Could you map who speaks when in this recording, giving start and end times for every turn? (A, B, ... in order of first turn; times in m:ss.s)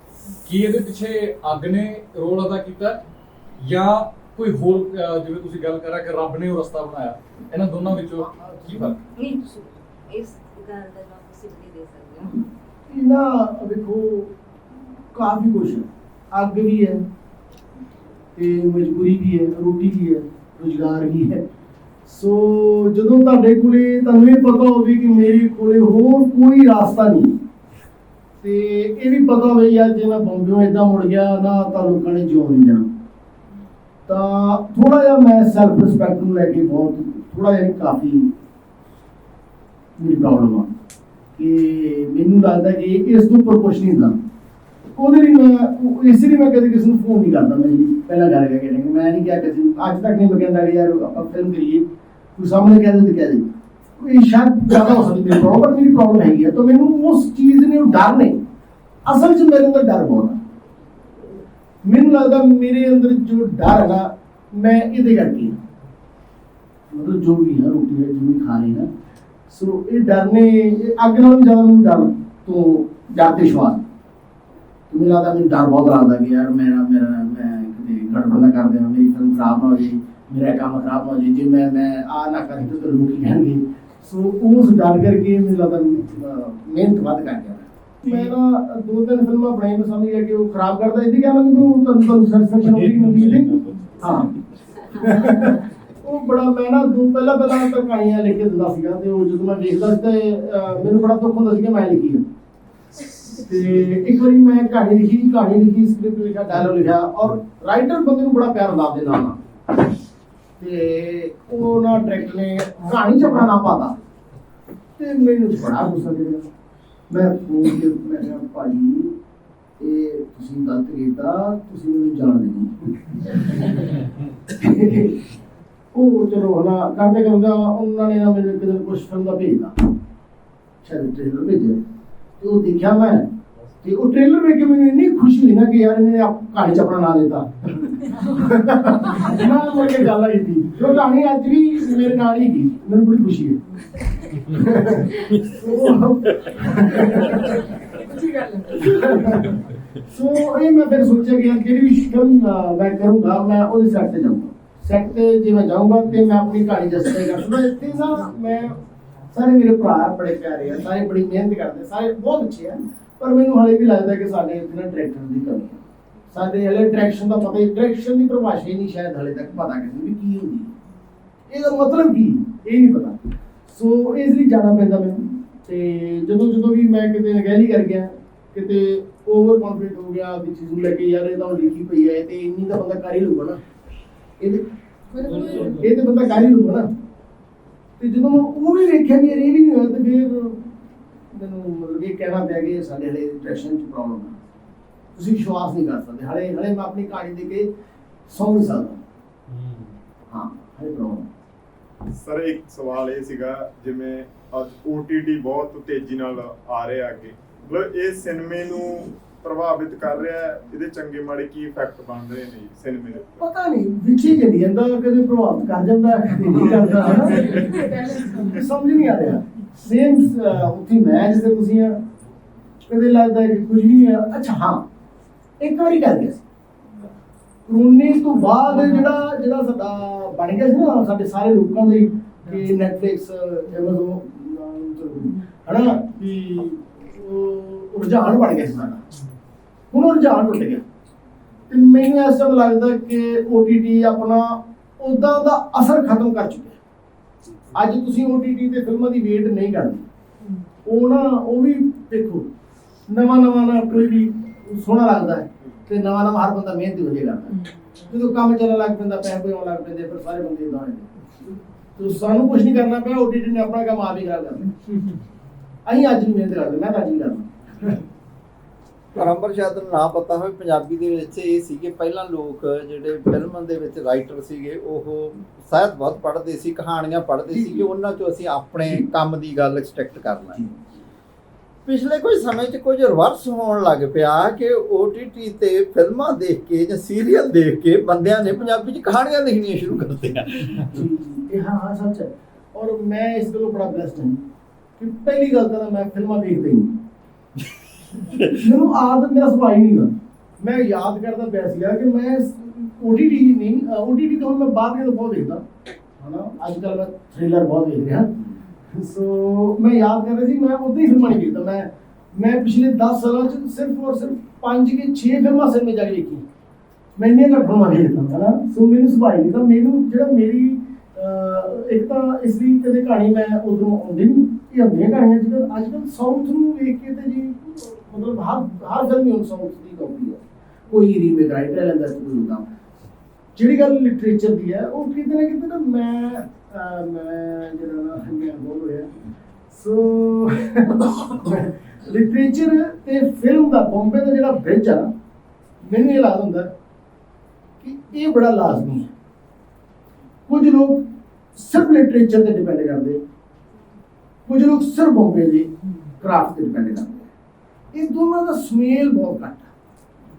0:00.4-0:03.0 A
0:03.6-0:09.0 A
0:08.2-0:09.0 B
0:09.2-0:12.4 C
0:12.9-0:14.3 B
0:15.1-0:17.0 B
0:18.4-0:21.4 B
0:22.1-0:27.4 B
0:28.4-0:32.9 B
0:34.1-0:38.3 B
0:40.0-0:40.7 B
0:41.4-0:44.2 B
0:45.0-0:58.4 B
0:59.1-1:00.4 B
1:01.8-1:05.6 B
1:06.9-1:08.9 B
1:09.5-1:13.9 B
1:14.9-1:34.3 B
1:32.8-1:33.9 A
1:34.9-1:42.3 B
1:43.3-1:49.4 B
1:50.6-1:54.0 B
1:55.0-1:56.4 B
1:57.1-1:59.2 B
1:59.8-2:05.2 B
2:05.9-2:09.7 B
2:10.8-2:11.8 B
2:12.4-2:13.3 B
2:13.8-2:23.6 B
2:24.5-2:27.7 B
2:28.7-2:38.8 B
2:39.3-2:50.7 B
2:51.5-3:03.6 B
3:04.4-3:06.9 B
3:05.3-3:05.8 A
3:08.0-3:10.7 B
3:11.3-3:14.4 B
3:15.2-3:17.7 B
3:18.3-3:19.0 B
3:19.5-3:19.9 A
3:20.3-3:21.3 B
3:22.2-3:33.4 D
3:33.4-3:37.8 B
3:38.3-3:42.0 B
3:42.9-3:44.8 B
3:45.6-3:46.4 B
3:47.7-3:59.0 B
3:59.9-4:00.8 B
4:01.7-4:06.8 B
4:07.7-4:10.0 B
4:10.8-4:12.5 B
4:13.1-4:21.1 B
4:22.0-4:24.7 B
4:25.9-4:28.0 B
4:29.2-4:40.7 E
4:41.8-4:51.0 E
4:50.8-4:54.4 B
4:55.0-4:57.0 B
4:58.2-4:58.6 E
4:58.5-5:05.6 B
5:06.2-5:16.4 B
5:17.2-5:32.7 B
5:33.6-5:39.1 B
5:39.7-5:45.1 B
5:45.8-5:46.7 B
5:47.8-5:49.1 B
5:50.5-5:53.2 B
5:54.5-5:57.3 B
5:57.9-5:59.7 B